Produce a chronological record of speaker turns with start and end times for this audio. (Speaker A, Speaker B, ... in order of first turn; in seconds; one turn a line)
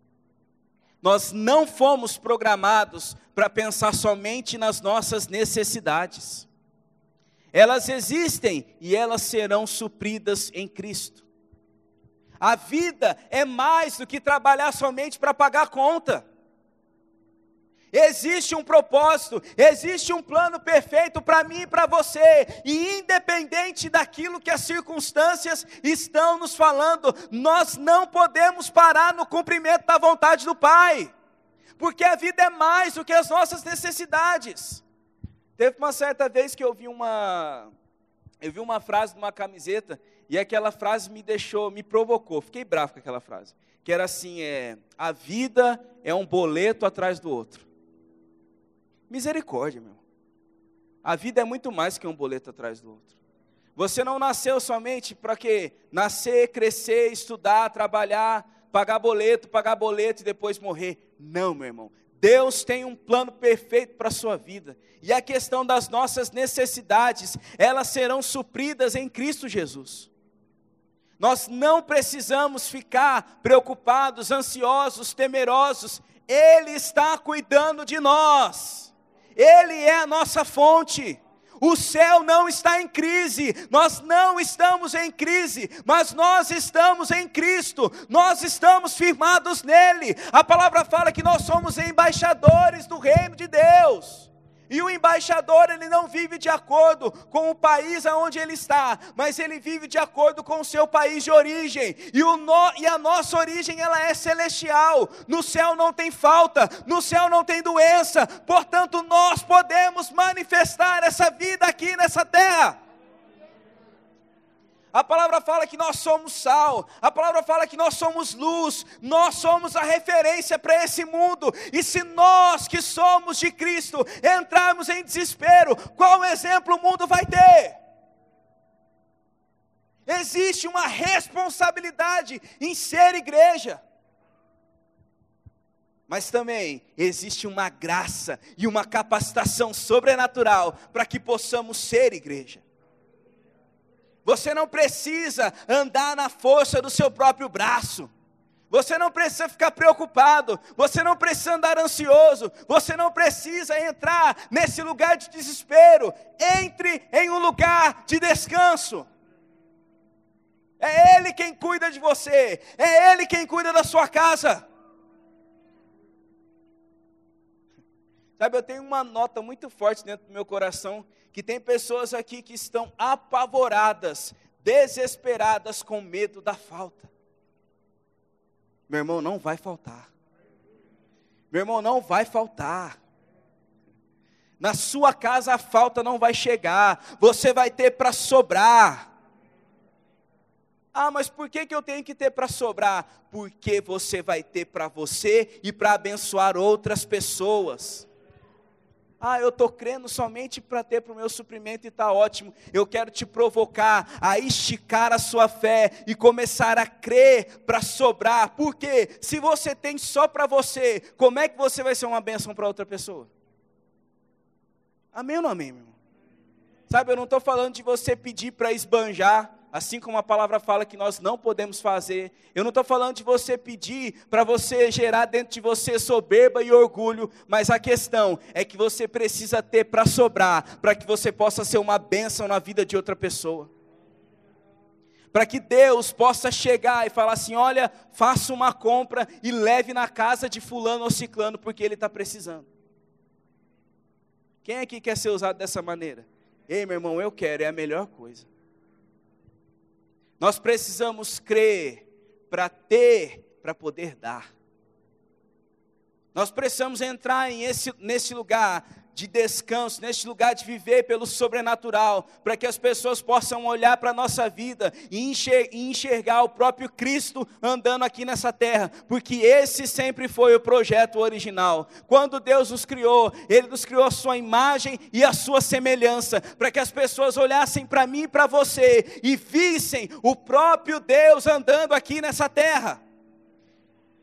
Speaker A: 1.0-6.5
Speaker A: 7.5-11.2
Speaker A: 12.4-16.2
Speaker A: 17.9-31.1
Speaker A: 31.8-34.8
Speaker A: 35.6-37.7
Speaker A: 38.4-47.6
Speaker A: 49.1-50.0
Speaker A: 51.0-53.1
Speaker A: 53.8-70.1
Speaker A: 71.2-112.8
Speaker A: 114.9-127.8
Speaker A: 130.1-133.8
Speaker A: 136.1-142.6
Speaker A: 144.2-148.1
Speaker A: 148.7-159.1
Speaker A: 160.8-164.7
Speaker A: 168.4-177.1
Speaker A: 178.9-180.1
Speaker A: 181.5-183.0
Speaker A: 184.6-189.1
Speaker A: 190.9-198.1
Speaker A: 199.2-213.3
Speaker A: 215.1-215.9
Speaker A: 216.9-233.7
Speaker A: 235.3-242.7
Speaker A: 244.6-248.5
Speaker A: 250.4-254.5
Speaker A: 256.3-283.0